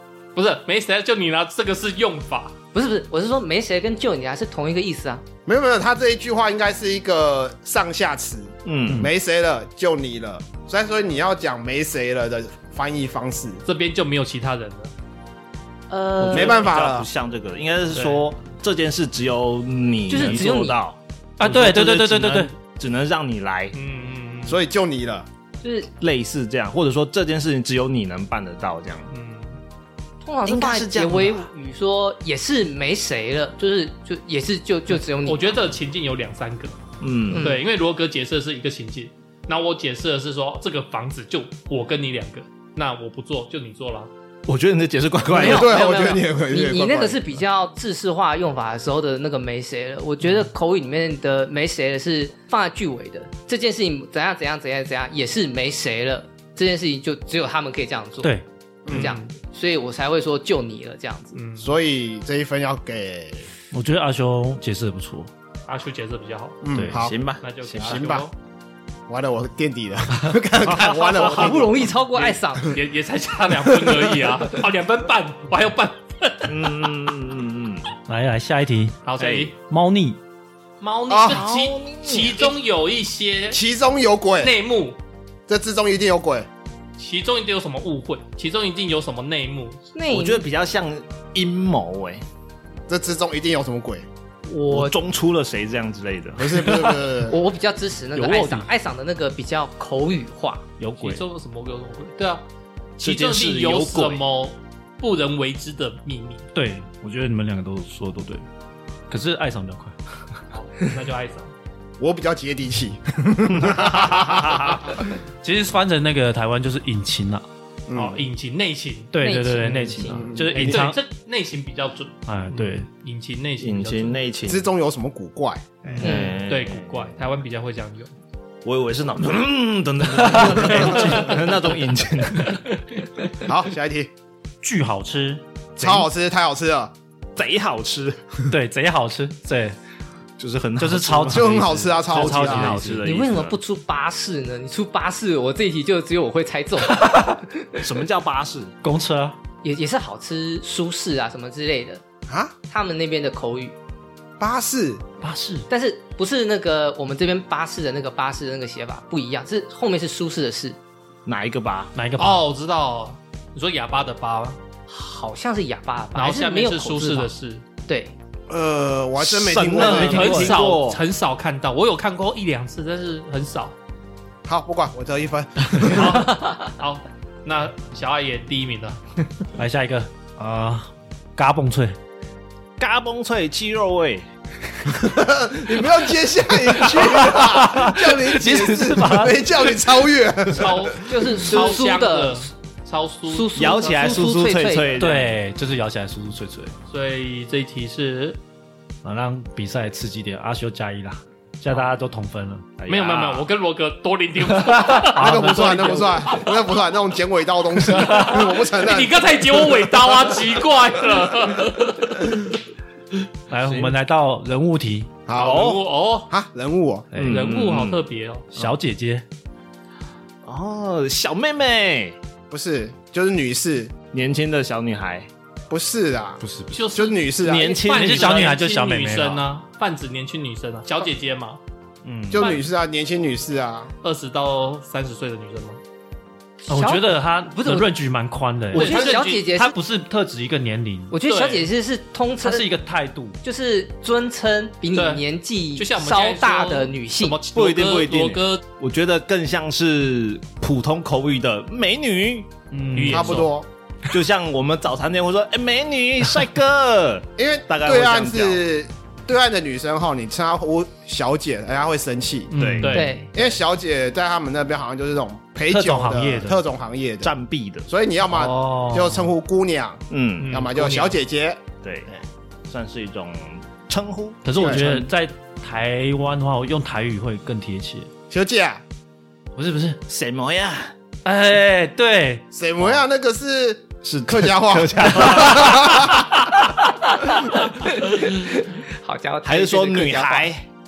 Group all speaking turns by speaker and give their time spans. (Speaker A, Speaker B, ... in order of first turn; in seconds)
Speaker A: 0.3-2.5, 13.6-14.9, 17.9-18.2, 23.7-24.6, 29.1-29.6, 35.2-44.1, 58.9-59.3, 61.3-61.7, 65.7-66.6, 67.4-68.3, 72.1-76.9, 79.0-79.5, 80.8-83.6, 84.4-85.0, 87.0-89.8, 101.0-102.4, 103.0-106.4, 110.5-111.5, 117.9-119.1, 120.3-124.2, 125.9-128.1, 130.8-131.3, 132.4-133.0, 162.2-164.6, 166.1-167.6, 169.8-173.7, 175.8-179.0, 190.5-194.2, 196.9-198.4, 202.9-206.6, 207.8-212.6, 215.3-216.3, 217.3-218.5, 226.7-231.6, 232.3-232.6, 234.0-235.8, 238.7-239.5, 241.2-241.7, 244.9-245.2, 245.8-248.6, 252.9-253.5, 262.5-263.3, 270.4-271.2
Speaker B: 2.7-5.2, 15.9-16.7, 20.1-20.8, 25.6-25.9, 30.2-35.6, 37.3-37.6, 45.3-58.3, 58.9-61.4, 71.1-72.8, 81.3-81.9, 89.9-90.5, 94.5-95.0, 97.3-100.6, 119.2-120.3, 126.0-126.4, 143.0-147.8, 149.6-152.0, 152.7-153.7, 155.7-160.8, 164.9-167.3, 167.9-168.1, 191.0-192.5, 193.3-195.1, 236.7-237.9, 238.7-239.7, 241.1-242.7, 243.4-247.4, 262.9-263.3, 287.8-290.5
Speaker C: 5.5-13.6, 16.3-17.1, 24.4-25.3, 45.3-47.4, 58.9-59.1, 61.6-63.5, 66.6-67.1, 67.8-68.2, 69.1-71.8, 81.1-81.4, 83.5-84.5, 85.5-86.5, 92.9-94.0, 96.4-97.4, 112.0-114.9, 117.9-118.2, 120.1-120.7, 124.5-126.1, 133.4-134.1, 135.8-136.9, 141.3-142.9, 152.3-152.5, 154.4-155.0, 168.5-170.4, 174.4-176.3, 184.9-191.0, 205.2-209.2, 215.3-217.1, 222.5-223.9, 225.7-227.8, 232.3-233.9, 253.1-253.7, 257.4-262.5, 263.3-267.3, 267.9-272.2, 274.6-275.0, 278.3-278.8, 282.5-286.3
Speaker D: 8.6-9.1, 16.2-23.7, 26.0-29.1, 30.4-31.5, 37.0-37.5, 44.5-45.7, 66.9-68.2, 70.6-71.7, 76.5-77.9, 79.2-79.5, 81.3-82.5, 90.1-92.2, 94.7-96.7, 103.0-104.2, 113.6-114.8, 123.6-124.7, 126.0-127.1, 128.6-132.6, 137.3-138.4, 140.4-143.6, 147.8-148.7, 161.2-161.9, 169.2-171.0, 182.8-184.3, 191.5-191.8, 193.5-195.3, 202.8-203.4, 213.6-213.9, 215.3-215.8, 217.1-218.0, 220.4-222.2, 224.1-225.3, 227.4-228.6, 232.0-232.6, 247.5-252.6, 254.1-258.6, 262.5-263.0, 267.2-267.9, 270.1-270.6, 271.8-272.1, 272.7-275.0, 280.1-280.9, 284.0-286.7, 289.4-290.7
Speaker E: 21.4-22.5, 63.7-65.3, 66.7-67.1, 78.1-79.0, 79.6-80.2, 98.1-98.7, 100.8-101.2, 106.5-108.4, 109.1-110.0, 115.4-117.4, 119.1-121.0, 122.3-122.9, 130.1-131.4, 134.6-135.4, 138.5-139.8, 140.8-143.0, 148.8-149.3, 155.2-155.7, 161.9-162.4, 169.8-170.5, 179.6-181.9, 186.8-189.7, 194.9-196.7, 199.0-202.7, 204.7-206.3, 213.5-215.2, 217.1-217.4, 218.5-219.2, 227.9-229.4, 236.7-241.1, 242.4-243.4, 252.7-253.4, 262.8-263.2, 265.7-266.6, 268.3-269.3, 274.4-278.1, 279.5-280.0, 281.2-282.5